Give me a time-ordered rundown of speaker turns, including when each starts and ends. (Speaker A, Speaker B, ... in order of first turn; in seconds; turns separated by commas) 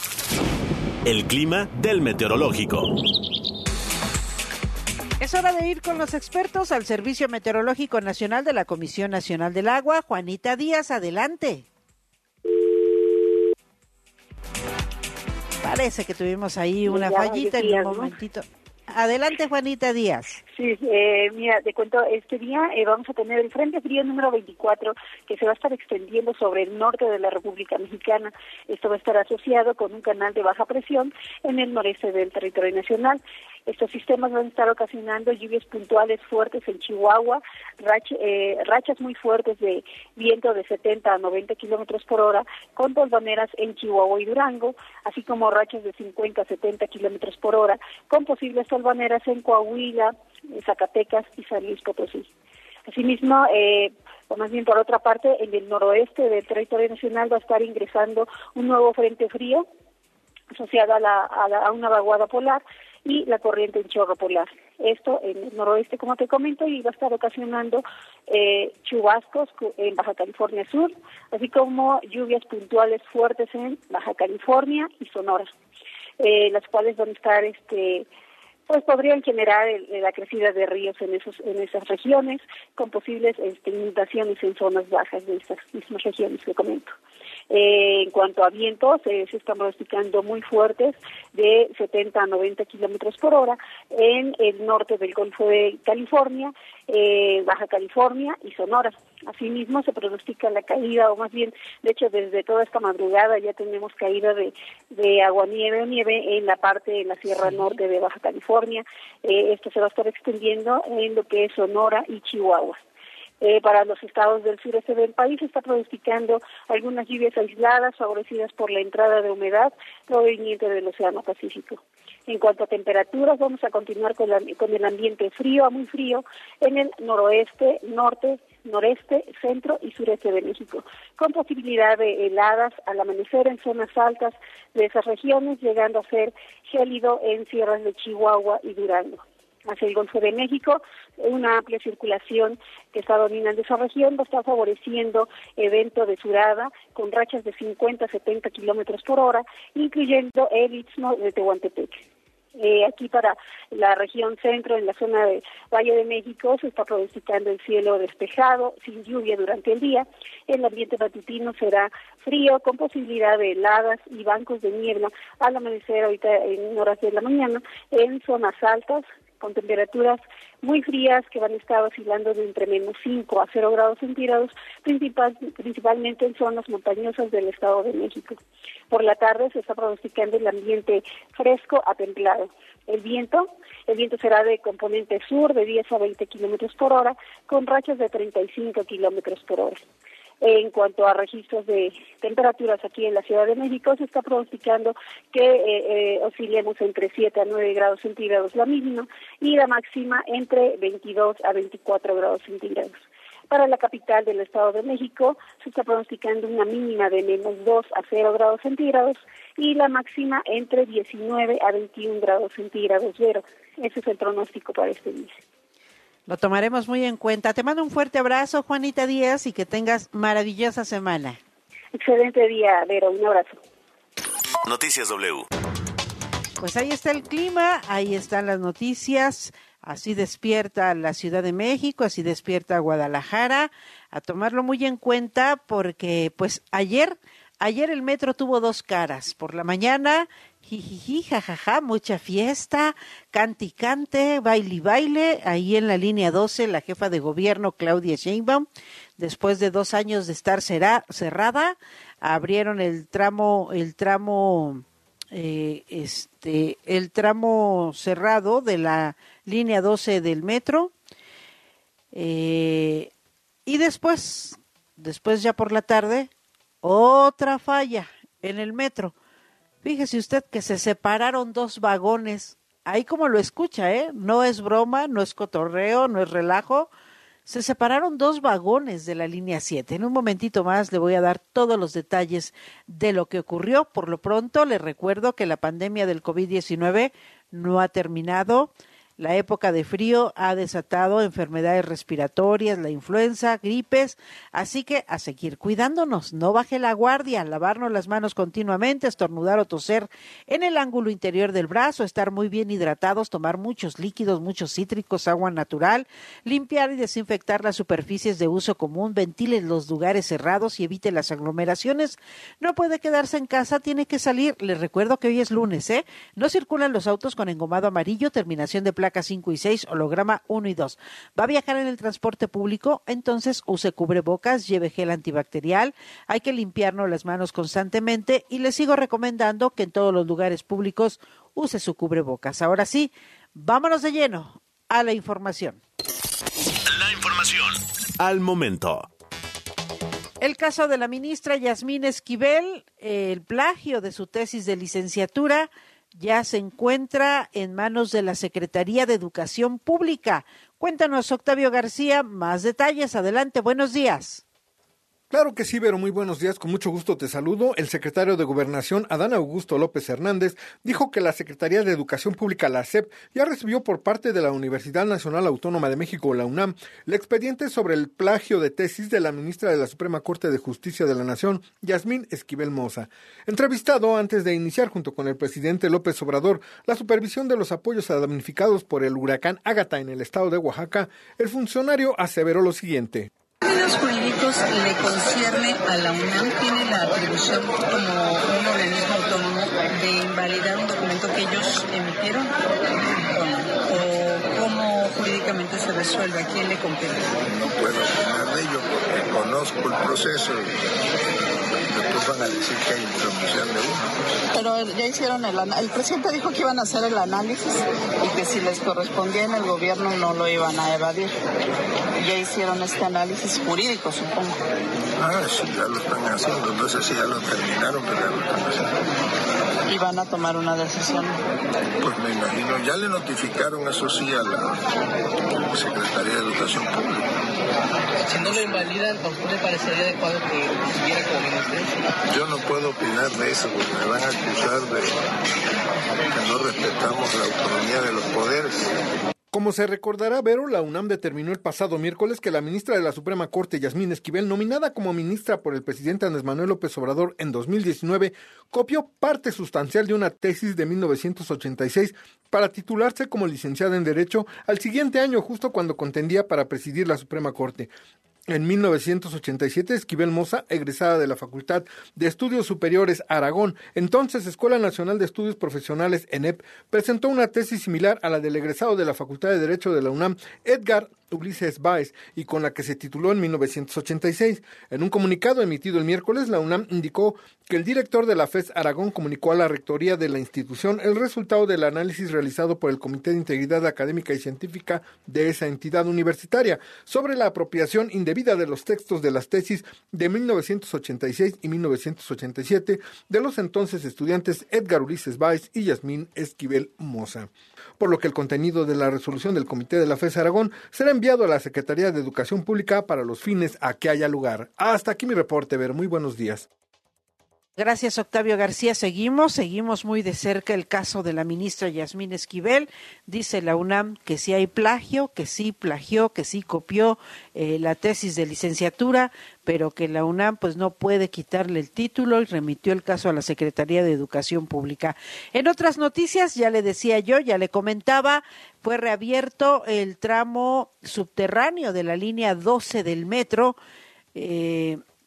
Speaker A: 1.0-2.9, Speaker B: 5.2-11.7, Speaker B: 15.6-20.4, Speaker C: 16.9-18.1, Speaker C: 20.5-52.3, Speaker C: 52.9-59.6, Speaker C: 60.5-75.5, Speaker C: 76.2-78.1, Speaker C: 78.7-86.9, Speaker C: 87.5-112.8, Speaker C: 113.4-152.0, Speaker C: 152.6-178.4, Speaker C: 178.9-189.8, Speaker C: 190.4-203.0, Speaker C: 203.5-215.4, Speaker B: 216.3-221.4, Speaker C: 221.9-223.6, Speaker A: 224.6-225.4, Speaker B: 226.6-248.7, Speaker B: 249.2-260.9, Speaker B: 262.1-263.1, Speaker B: 263.6-266.3, Speaker B: 266.8-269.1, Speaker B: 269.8-276.9, Speaker B: 277.4-335.8, Speaker A: 336.9-339.1, Speaker B: 340.4-354.4, Speaker D: 355.3-383.3, Speaker E: 383.6-392.5, Speaker E: 393.3-397.3, Speaker F: 397.4-400.7, Speaker F: 401.9-404.1, Speaker E: 404.5-411.3, Speaker E: 412.2-414.6, Speaker F: 415.2-419.0, Speaker E: 419.9-421.4, Speaker F: 422.0-424.8, Speaker F: 425.6-427.4, Speaker G: 428.2-431.9, Speaker F: 428.4-428.8, Speaker F: 432.3-435.2, Speaker F: 436.3-438.9, Speaker D: 439.5-457.9, Speaker D: 458.5-506.7, Speaker B: 507.8-533.8, Speaker B: 534.3-535.0